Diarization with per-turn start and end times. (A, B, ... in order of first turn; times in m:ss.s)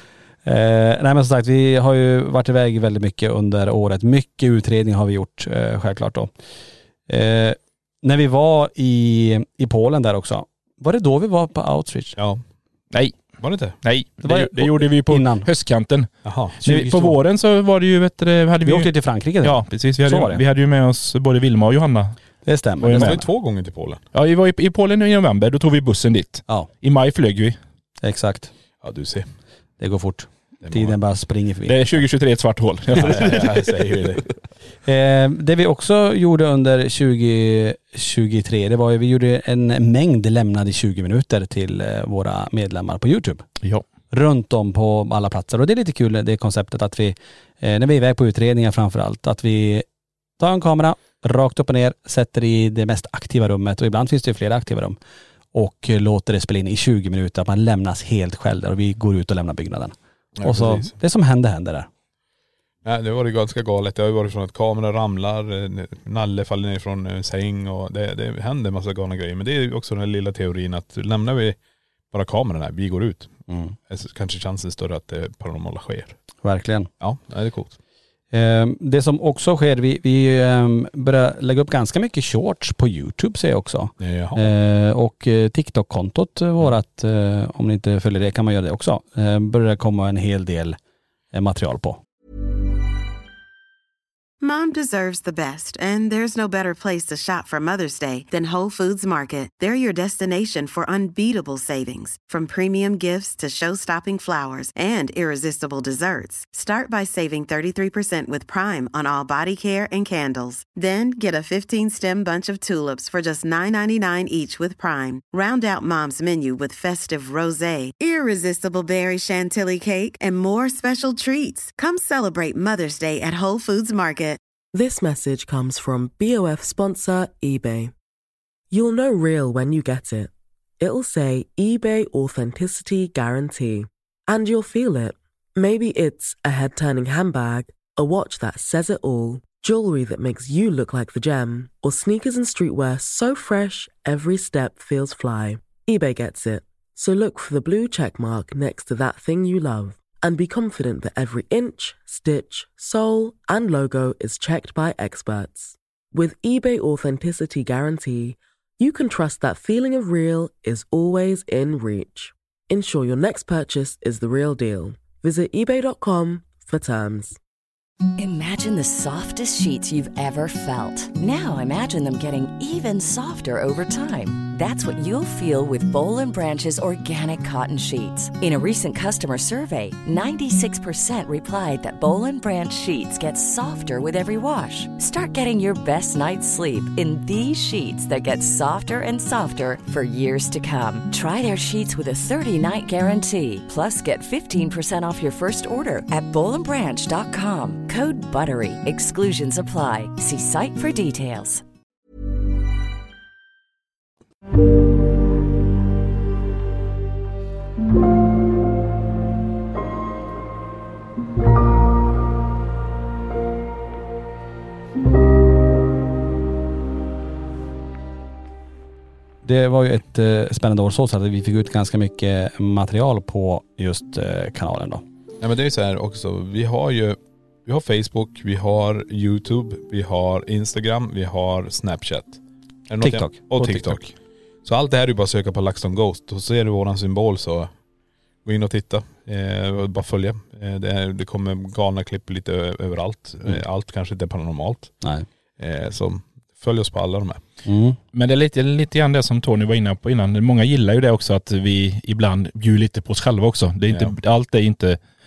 0:00.4-0:06.3 A
0:07.1-0:12.2 A
0:12.2-0:12.4 B
0:12.9-0:22.1 C
0:13.4-0:13.8 B
0:14.2-0:15.5 A
0:16.2-0:16.6 B
0:16.6-0:17.2 A
0:18.6-0:20.4 A
0:22.4-0:23.2 A
0:22.8-0:23.2 C
0:22.9-0:24.0 B
0:24.1-0:27.6 C
0:28.0-0:28.5 A
0:28.8-0:29.2 B
0:29.8-0:31.8 A
0:30.6-0:31.0 B
0:31.7-0:34.1 C
0:33.0-0:34.2 B
0:34.8-0:43.4 A
0:44.1-0:49.8 A
0:50.4-0:55.0 A
0:55.5-1:01.9 A
1:00.4-1:00.9 B
1:02.8-1:11.6 B
1:12.1-1:13.4 B
1:13.5-1:13.8 A
1:13.9-1:16.2 B
1:16.4-1:16.9 A
1:17.0-1:17.8 B
1:18.3-1:30.8 A
1:24.0-1:24.4 B
1:31.3-1:32.0 A
1:34.4-2:04.4 D
2:04.7-2:07.9 E
2:08.7-2:47.4 E
2:48.2-3:21.6 F
3:39.4-3:45.0 A
3:45.4-3:54.1 B
3:53.0-3:54.0 A
3:54.6-3:57.7 B
3:58.4-4:04.9 B
4:05.6-4:07.4 B
4:07.6-4:08.0 A
4:08.1-4:15.0 C